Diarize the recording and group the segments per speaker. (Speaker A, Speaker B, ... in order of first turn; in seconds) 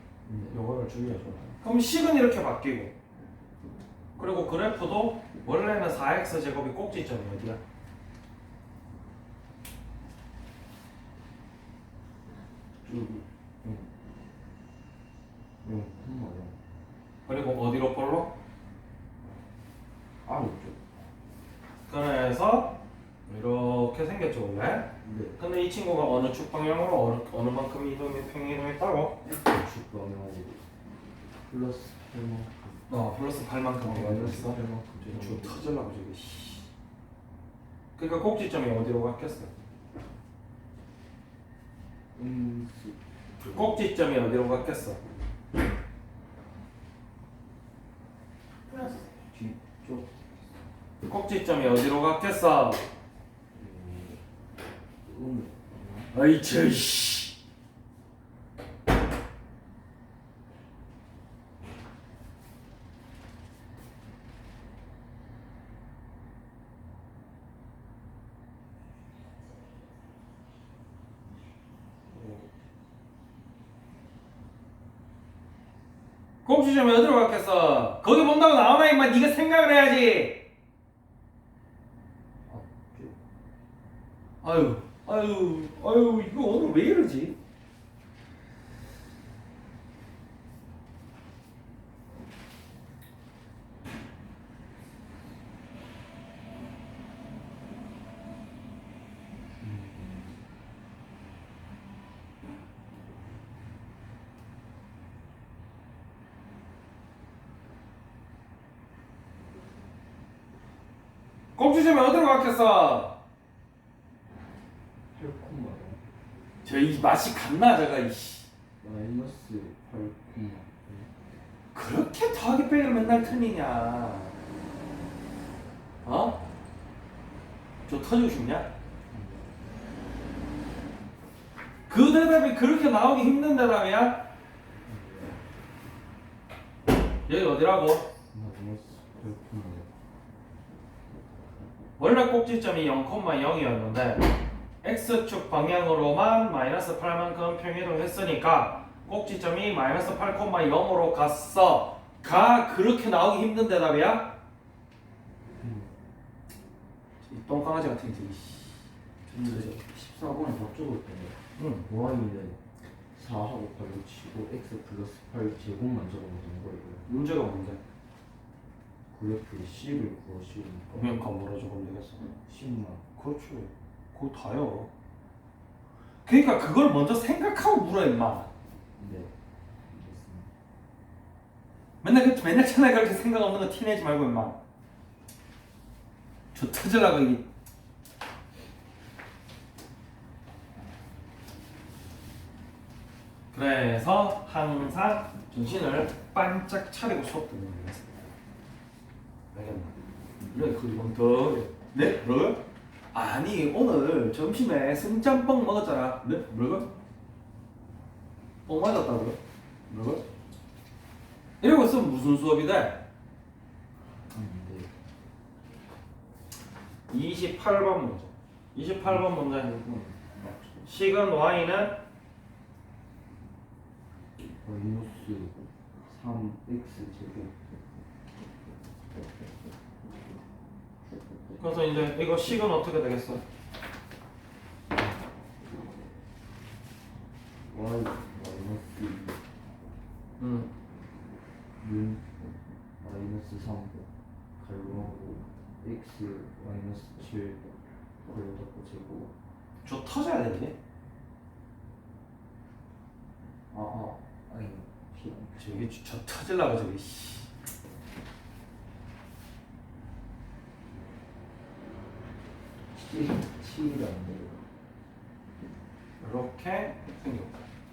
Speaker A: 0.3-0.6, 12.8-13.9, 15.6-16.6, 20.2-21.0, 25.0-25.4, 29.2-30.6, 31.4-33.0, 33.8-35.7, 42.1-43.9, 49.3-50.2, 53.5-54.2, 55.0-56.1, 82.5-83.2, 99.6-100.4, 115.1-116.0, 118.8-121.1, 129.1-129.7, 134.8-135.4, 138.3-139.9, 155.6-155.9, 159.3-162.6, 163.1-167.1, 169.1-171.2, 172.5-173.1, 179.0-179.3, 179.9-180.5, 214.3-214.9, 219.0-220.6, 224.4-225.6, 226.1-227.5, 234.9-235.3, 237.7-239.4, 241.8-242.3, 243.0-247.7, 248.2-249.3, 253.7-255.9, 262.9-264.6
Speaker B: 0.5-3.0, 4.2-7.6, 17.3-18.4, 21.9-29.2, 32.9-36.7, 38.0-39.5, 43.5-45.0, 48.7-49.1, 51.0-52.9, 56.1-57.3, 72.1-72.5, 76.5-80.5, 84.4-87.4, 111.6-113.2, 116.6-118.5, 121.7-124.3, 126.0-126.4, 127.9-128.7, 131.9-134.3, 137.3-138.1, 142.0-144.3, 144.8-154.3, 157.2-159.8, 161.6-161.9, 167.1-167.8, 170.9-172.3, 173.2-174.9, 176.3-178.5, 182.0-184.6, 186.5-187.4, 193.5-198.2, 199.5-200.0, 200.5-202.6, 203.1-206.9, 208.7-209.4, 209.9-210.2, 211.6-213.0, 217.1-219.8, 220.8-222.0, 231.6-233.4, 240.4-240.7, 249.8-250.8, 255.6-257.5, 266.2-267.7